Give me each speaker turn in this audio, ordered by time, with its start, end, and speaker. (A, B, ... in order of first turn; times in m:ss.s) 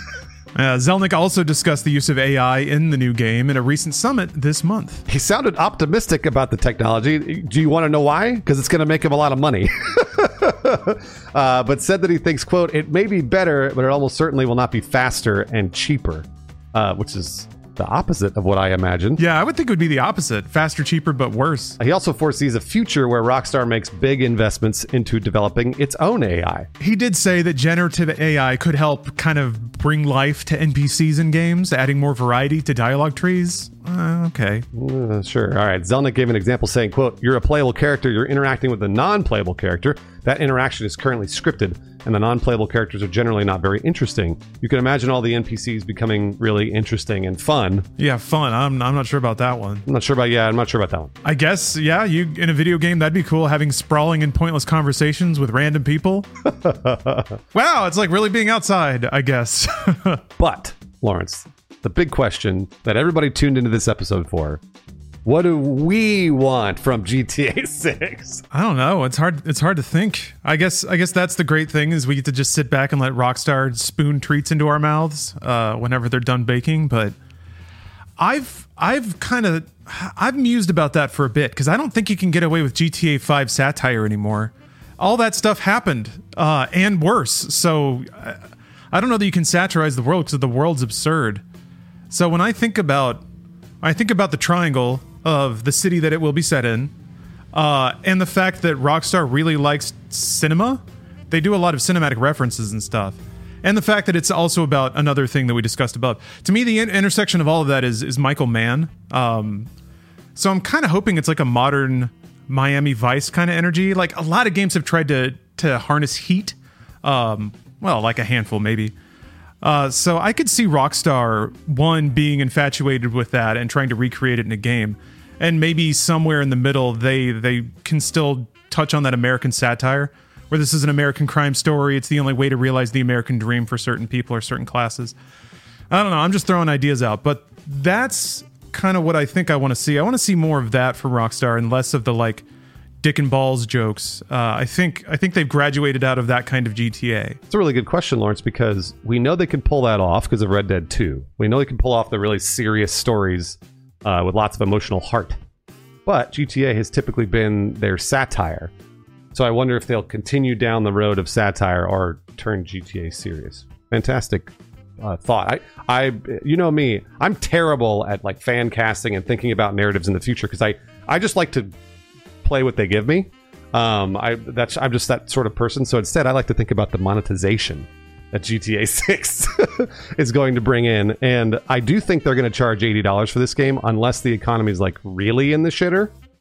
0:00.5-0:05.0 A
0:05.1-0:19.2 B
0:19.2-0:21.8 A
0:21.8-0:26.7 B
0:26.8-0:34.6 A
0:34.7-0:47.9 B
0:48.0-0:49.9 A
0:49.9-0:51.1 B
0:51.2-0:56.3 A
0:56.4-0:57.4 B
0:57.5-1:00.2 A
1:00.4-1:04.6 B
1:05.2-1:08.4 B
1:08.5-1:17.1 A
1:18.2-1:28.4 A
1:28.9-1:31.4 A
1:32.1-1:33.2 A
1:33.8-1:36.9 A
1:37.5-1:49.7 A
1:50.3-1:58.9 A
1:59.6-2:15.1 A
2:15.9-2:22.4 A
2:23.0-2:27.4 A
2:27.5-2:35.4 B
2:36.0-2:38.7 B
2:39.3-2:51.7 B
2:52.4-3:06.1 B